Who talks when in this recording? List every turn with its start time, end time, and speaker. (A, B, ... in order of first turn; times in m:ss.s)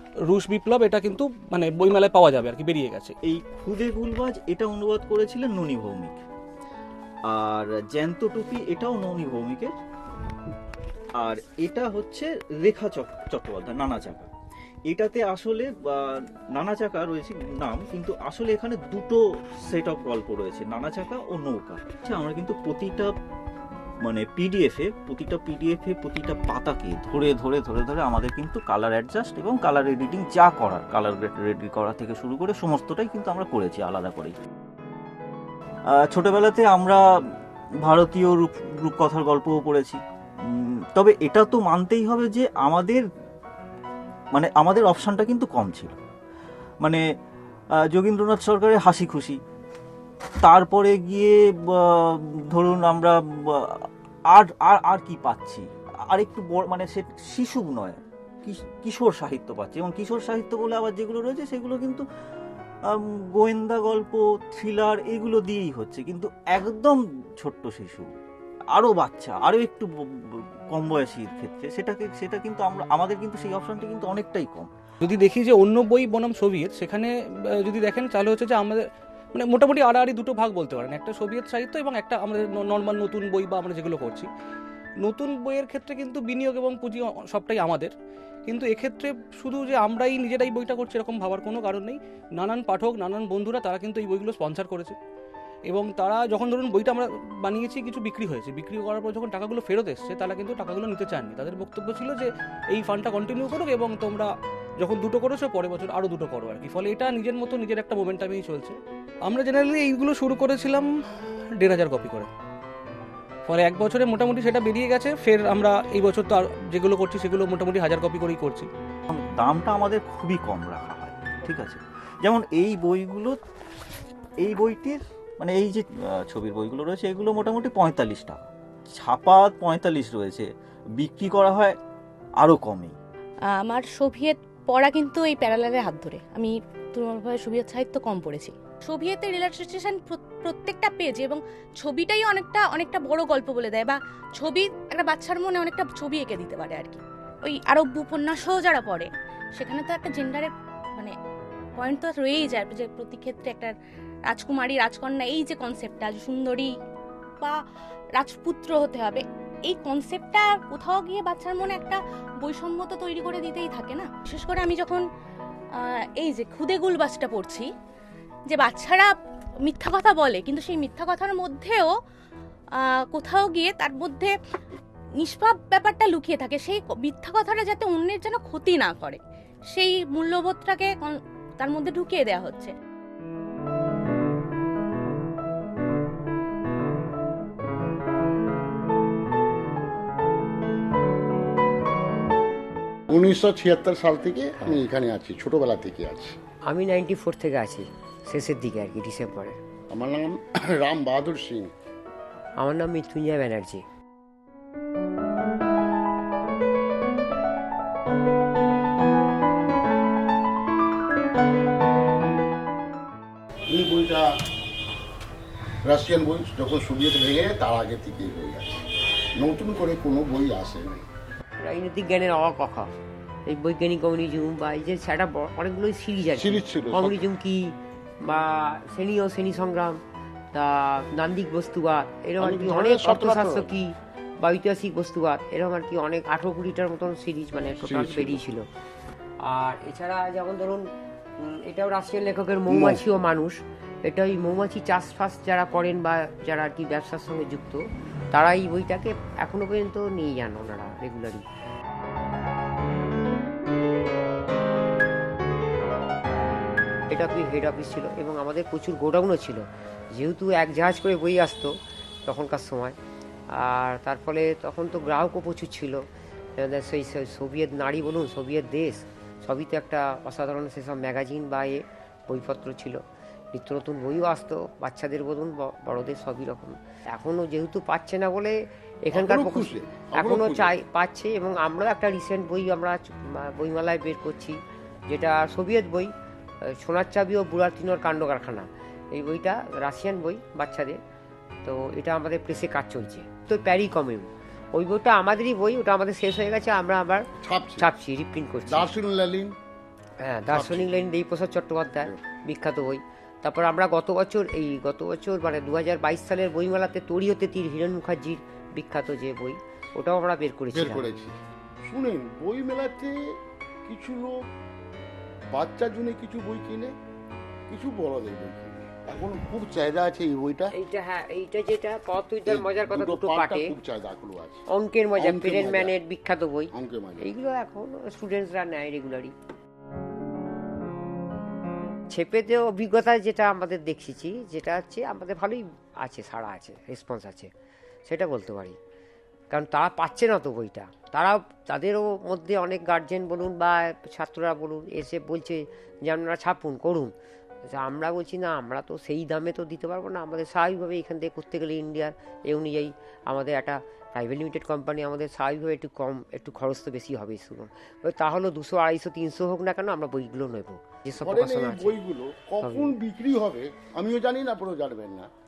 0:00.2-0:03.1 A
0:03.2-0:06.2 B
0:07.3-0:09.7 B
0:11.2-0:14.3 B
0:14.9-0:23.1 B
0:24.0-0:34.3 B
0:36.0-0:37.0 B
0:37.8-0:40.0 B
0:40.9-0:43.0 B
0:44.3-0:46.0 B
0:47.9-0:49.4 B
0:50.4-0:53.8 B
0:54.3-1:02.0 B
1:02.9-1:08.1 B
1:08.7-1:09.9 B
1:10.7-1:14.7 B
1:15.0-1:24.3 A
1:25.0-1:27.9 A
1:28.4-1:35.0 A
1:35.7-1:50.9 A
1:51.5-1:52.3 A
1:53.4-1:58.7 A
1:59.1-2:03.4 B
2:04.4-2:08.4 B
2:09.0-2:10.5 B
2:11.0-2:11.8 B
2:12.4-2:13.0 B
2:13.6-2:31.1 C
2:31.8-2:33.7 C
2:34.3-2:36.7 C
2:38.2-2:45.0 C
2:45.8-2:47.7 C
2:48.5-2:49.1 C
2:49.6-2:51.9 C
2:52.7-2:54.3 C
2:55.2-2:59.2 C
2:59.7-3:02.7 C
3:13.1-3:16.4 D
3:16.7-3:19.6 E
3:19.9-3:21.7 D
3:22.6-3:23.8 E
3:33.7-3:34.3 D
3:35.8-3:38.8 D
3:39.4-3:41.0 D
3:41.6-3:42.9 E
3:43.4-3:50.0 E
3:46.4-3:47.3 D
3:50.5-3:58.6 E
3:52.4-3:53.8 D
3:57.8-3:58.4 D
3:59.4-4:00.9 E
4:01.4-4:07.8 E
4:02.7-4:03.0 D
4:08.3-4:11.4 E
4:17.1-4:19.6 E
4:20.1-4:21.7 E
4:22.2-4:23.0 E
4:23.5-4:26.0 E
4:26.6-4:33.0 E
4:33.5-4:46.1 E
4:39.1-4:40.8 D
4:46.6-4:51.0 E
4:51.6-4:58.9 E
4:57.4-4:57.9 D
4:58.6-4:59.5 D
5:00.2-5:11.0 E
5:00.5-5:01.0 D
5:10.7-5:13.2 D
5:13.8-5:14.5 D
5:15.5-5:16.9 D
5:17.7-5:20.7 D
5:20.7-5:23.7 E
5:22.4-5:24.6 D
5:24.7-5:29.3 E
5:25.2-5:26.0 D
5:26.7-5:27.3 D
5:32.1-5:37.5 E
5:38.1-5:38.8 E
5:39.5-5:47.1 E
5:47.7-6:02.0 E
6:01.2-6:05.3 D
6:02.6-6:03.0 E